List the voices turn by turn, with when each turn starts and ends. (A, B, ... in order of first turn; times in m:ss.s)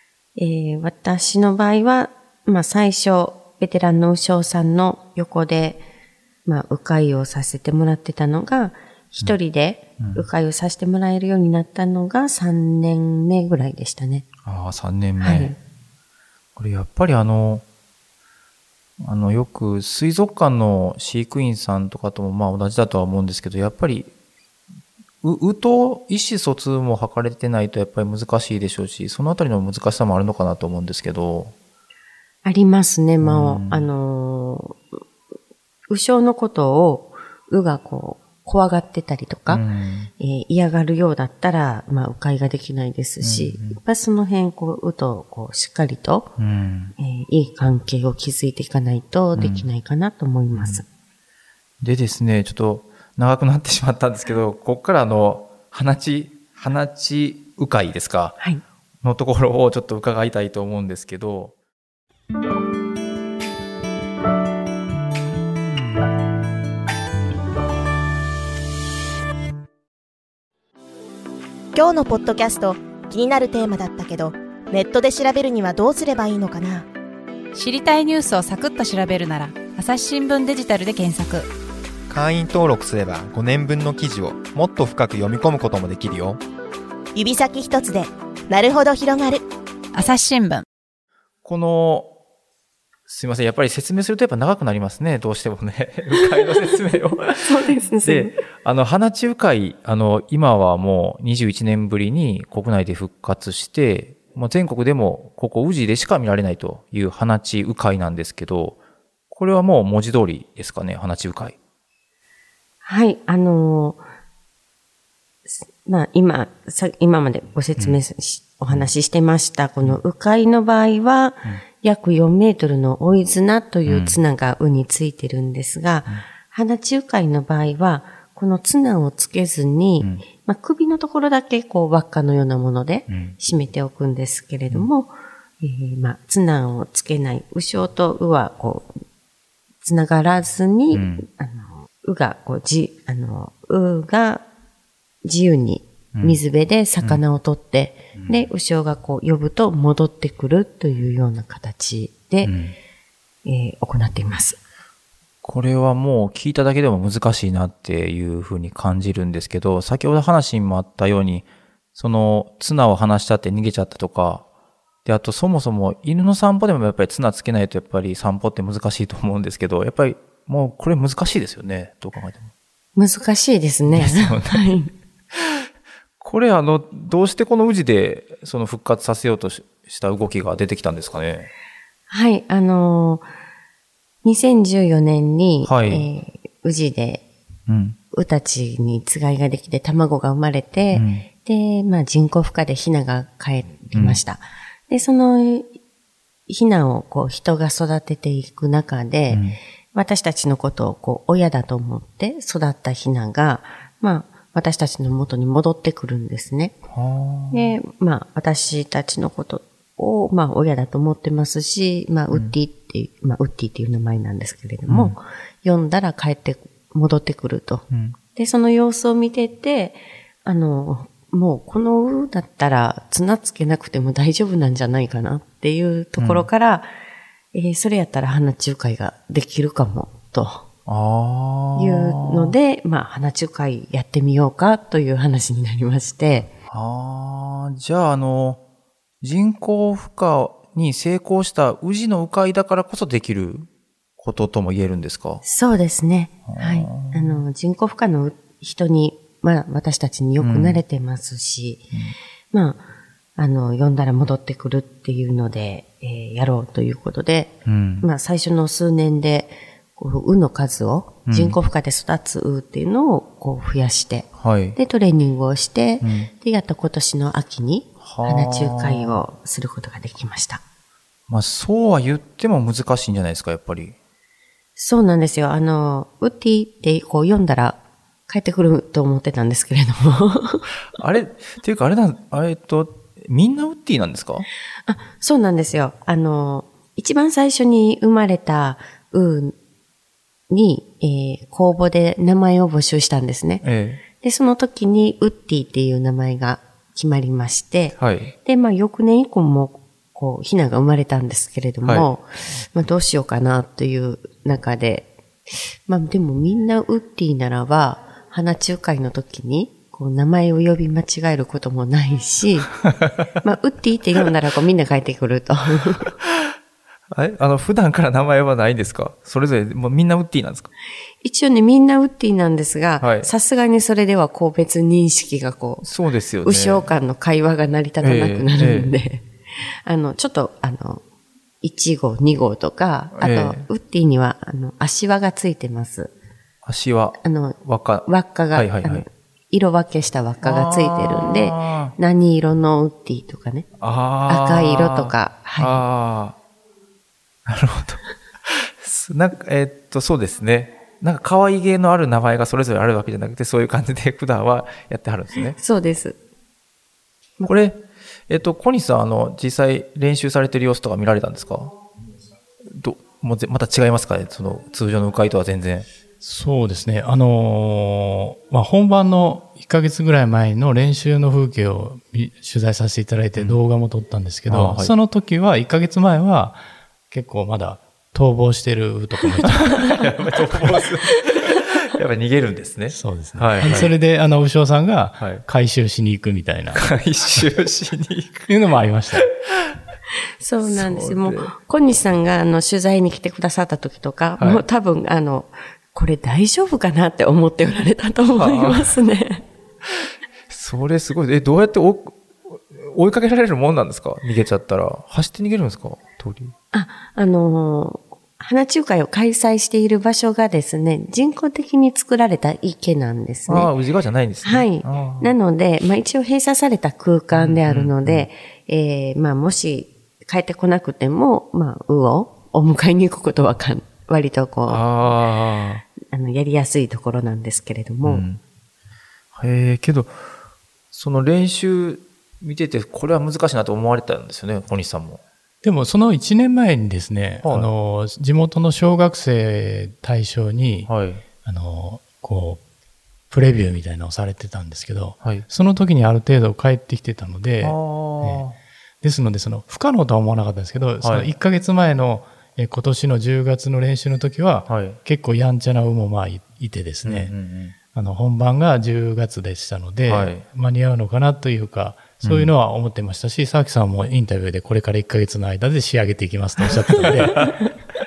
0:00.4-0:05.8 A
0:06.4-0:14.2 A
0:10.0-0:10.3 B
0:14.4-0:15.5 B
0:15.2-0:15.6 A
0:16.6-0:17.6 B
0:19.0-0:24.1 B
0:25.2-0:31.5 B
0:32.4-0:34.8 A
0:33.2-0:33.9 B
0:35.9-0:39.6 A
0:39.5-0:40.1 B
0:40.2-0:46.3 A
0:43.2-0:43.8 B
0:46.4-0:46.9 B
0:47.0-0:50.8 A
0:49.4-0:49.6 B
0:50.5-0:50.8 B
0:51.8-0:58.4 B
0:59.0-1:01.5 B
1:11.7-1:16.9 C
1:17.5-1:21.5 D
1:22.1-1:26.4 E
1:27.1-1:29.4 C
1:29.9-1:30.6 D
1:31.4-1:32.1 B
1:33.1-1:37.5 B
1:37.4-1:38.4 A
1:38.0-1:48.8 B
1:49.3-1:51.6 B
1:52.8-1:54.0 A
1:55.5-2:19.0 A
2:03.8-2:04.2 B
2:13.1-2:13.4 B
2:19.8-2:24.4 A
2:20.9-2:21.2 B
2:25.2-2:32.5 A
2:28.1-2:28.5 B
2:32.4-2:32.8 B
2:33.4-2:34.6 A
2:35.4-2:44.4 B
2:45.0-2:52.5 B
2:53.0-2:54.9 A
2:53.9-2:54.8 B
2:55.3-2:55.6 B
2:56.2-3:01.5 B
3:02.1-3:03.3 A
3:04.2-3:07.2 A
3:05.6-3:06.1 B
3:07.7-3:08.0 B
3:08.1-3:15.7 A
3:10.9-3:11.2 B
3:13.9-3:14.2 B
3:16.5-3:19.4 A
3:19.3-3:19.6 B
3:19.9-3:26.8 A
3:26.9-3:27.7 B
3:27.5-3:46.9 A
3:34.9-3:35.2 B
3:37.9-3:38.2 B
3:46.2-3:46.5 B
3:47.5-3:50.6 A
3:50.8-3:52.5 B
3:51.7-3:56.5 A
3:56.7-3:58.6 B
3:59.2-4:05.4 B
4:05.4-4:11.9 A
4:06.5-4:07.4 B
4:10.4-4:10.8 B
4:12.5-4:12.8 A
4:13.4-4:30.6 A
4:17.6-4:18.1 B
4:21.3-4:21.6 B
4:24.4-4:24.8 B
4:26.0-4:26.3 B
4:28.0-4:29.2 B
4:31.3-4:33.9 B
4:34.8-4:40.7 A
4:40.9-4:44.4 B
4:44.9-4:49.5 A
4:50.5-4:53.6 A
4:53.6-4:54.0 B
4:54.2-5:12.8 A
4:58.0-4:58.3 B
5:13.4-5:16.1 A
5:16.2-5:16.5 B
5:17.1-5:20.7 B
5:21.2-5:25.8 A
5:23.0-5:23.3 B
5:25.8-5:26.9 B
5:26.4-5:31.0 A
5:28.0-5:28.9 B
5:31.6-5:36.1 A
5:33.1-5:33.6 B
5:36.6-5:39.0 B
5:37.2-5:43.7 A
5:40.4-5:41.9 B
5:43.8-5:46.4 B
5:44.2-5:45.8 A
5:47.4-5:55.6 B
5:55.6-5:56.2 A
5:57.4-6:01.8 B
6:02.7-6:05.9 B
6:06.2-6:20.0 F
6:14.5-6:14.9 B
6:19.7-6:23.9 B
6:22.9-6:27.4 F
6:25.2-6:25.4 B
6:26.7-6:28.5 B
6:28.5-6:29.3 F
6:30.4-6:39.4 A
6:30.6-6:31.5 B
6:34.4-6:34.6 B
6:38.4-6:39.0 B
6:39.8-6:46.5 B
6:46.7-6:53.7 A
6:53.5-6:55.3 B
6:54.4-7:04.8 A
6:57.3-6:58.3 B
7:04.7-7:05.8 B
7:06.0-7:08.2 A
7:08.0-7:08.4 B
7:09.3-7:10.2 B
7:10.9-7:15.2 B
7:15.6-7:20.9 F
7:17.4-7:17.7 B
7:20.9-7:21.2 B
7:21.4-7:22.6 F
7:23.3-7:28.4 F
7:27.6-7:28.6 B
7:29.0-7:37.3 F
7:31.0-7:31.3 B
7:34.7-7:35.0 B
7:37.0-7:37.7 B
7:37.9-7:47.6 F
7:40.0-7:40.4 B
7:42.2-7:42.5 B
7:47.0-7:47.5 B